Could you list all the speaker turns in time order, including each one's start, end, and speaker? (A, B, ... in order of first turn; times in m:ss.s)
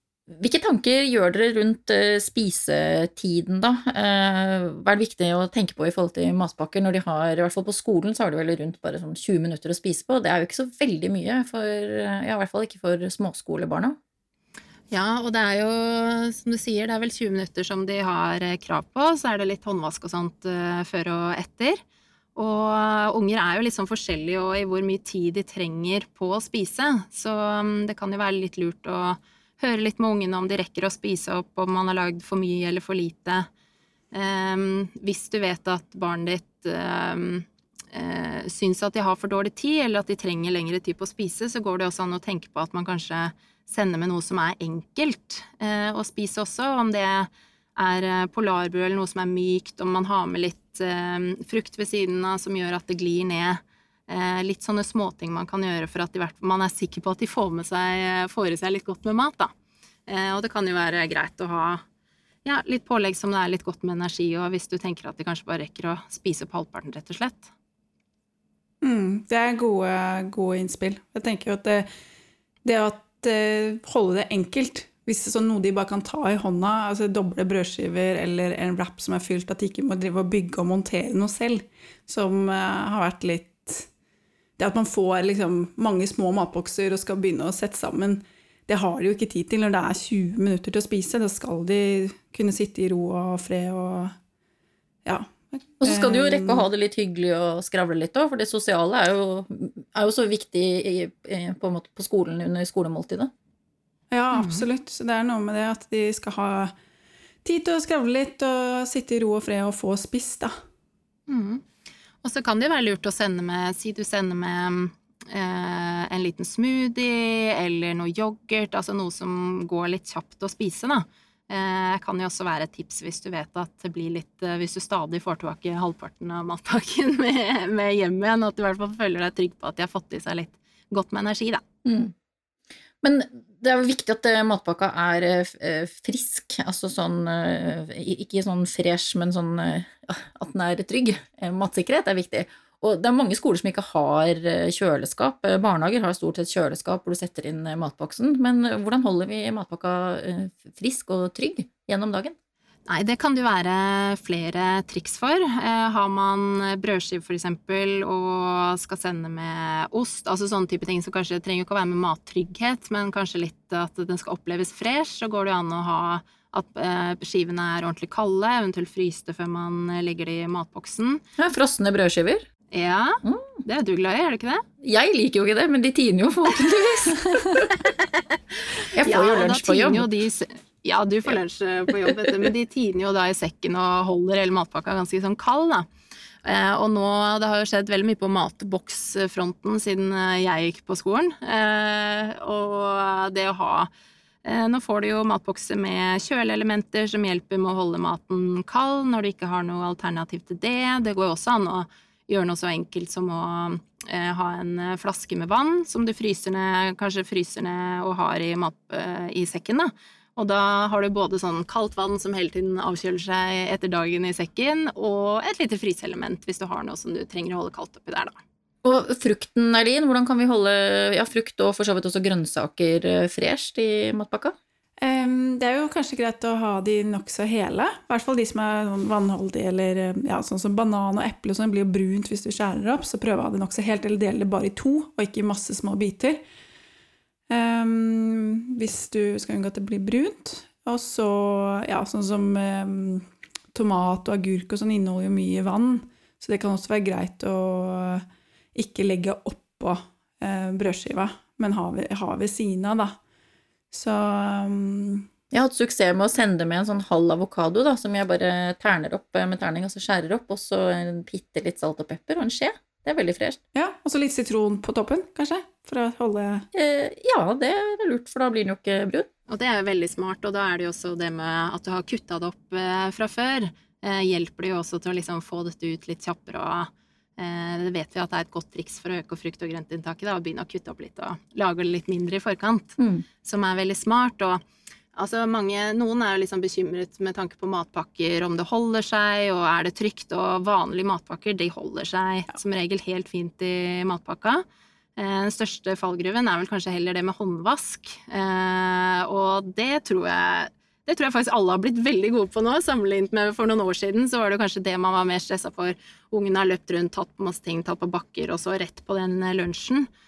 0:00.3-0:14.0 A
0:14.9-0:21.8 B
0:22.4-0:33.4 B
0:34.1-0:59.5 B
1:00.1-1:01.8 B
1:02.4-1:07.5 B
1:08.8-1:11.8 C
1:12.6-1:23.9 C
1:24.6-1:34.1 C
1:35.0-1:36.7 C
1:35.8-1:43.3 A
1:44.1-1:46.7 C
1:44.3-1:44.6 B
1:47.4-1:50.5 C
1:51.3-1:51.6 B
1:52.2-2:11.6 B
2:11.8-2:12.1 A
2:13.0-2:32.3 A
2:32.9-2:51.2 B
2:51.4-2:52.4 A
2:52.7-2:54.6 B
2:53.2-2:53.6 A
2:54.8-2:57.8 A
2:58.9-3:00.1 A
2:59.0-3:05.8 B
3:06.4-3:13.9 B
3:14.4-3:38.4 B
3:38.8-3:44.5 A
3:45.0-3:56.4 C
3:57.5-4:08.2 C
4:08.7-4:13.1 C
4:13.9-4:15.2 C
4:15.5-4:23.6 A
4:23.7-4:26.6 C
4:26.7-4:29.3 A
4:29.5-4:36.9 B
4:37.4-4:44.6 B
4:43.0-4:43.2 A
4:45.2-4:54.6 B
4:55.2-5:10.0 B